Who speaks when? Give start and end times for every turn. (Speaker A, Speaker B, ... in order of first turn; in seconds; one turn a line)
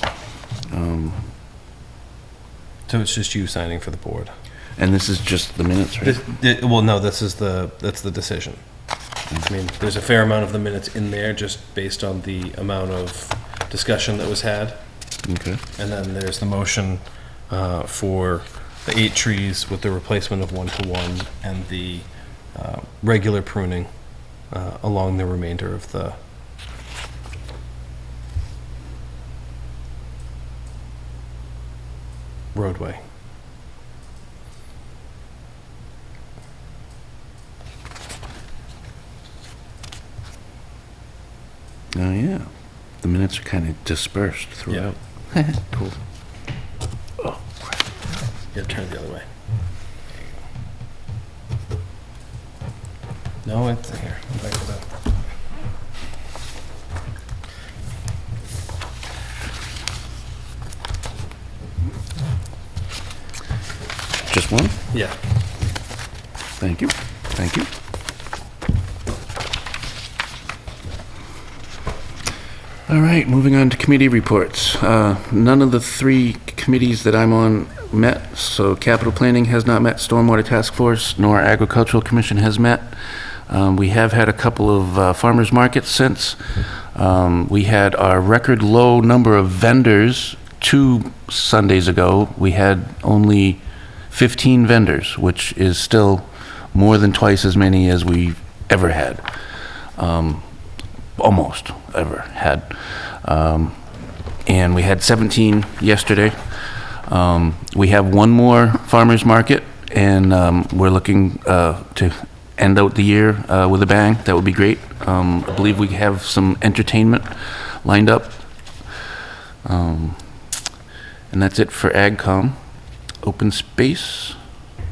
Speaker A: 0.7-1.3
Speaker B: 2.9-4.3
Speaker A: 4.8-6.2
Speaker B: 6.0-8.6
Speaker B: 9.5-14.8
Speaker A: 15.2-15.6
Speaker B: 15.8-23.9
Speaker B: 24.5-26.1
Speaker B: 32.5-33.0
Speaker A: 41.9-42.5
Speaker A: 43.0-46.0
Speaker A: 47.2-47.7
Speaker B: 48.5-49.2
Speaker B: 53.4-54.9
Speaker A: 64.3-64.8
Speaker A: 66.6-67.7
Speaker A: 72.9-99.3
Speaker A: 100.0-100.4
Speaker A: 101.2-103.8
Speaker A: 104.5-118.4
Speaker A: 119.6-120.5
Speaker A: 121.3-122.6
Speaker A: 123.2-124.4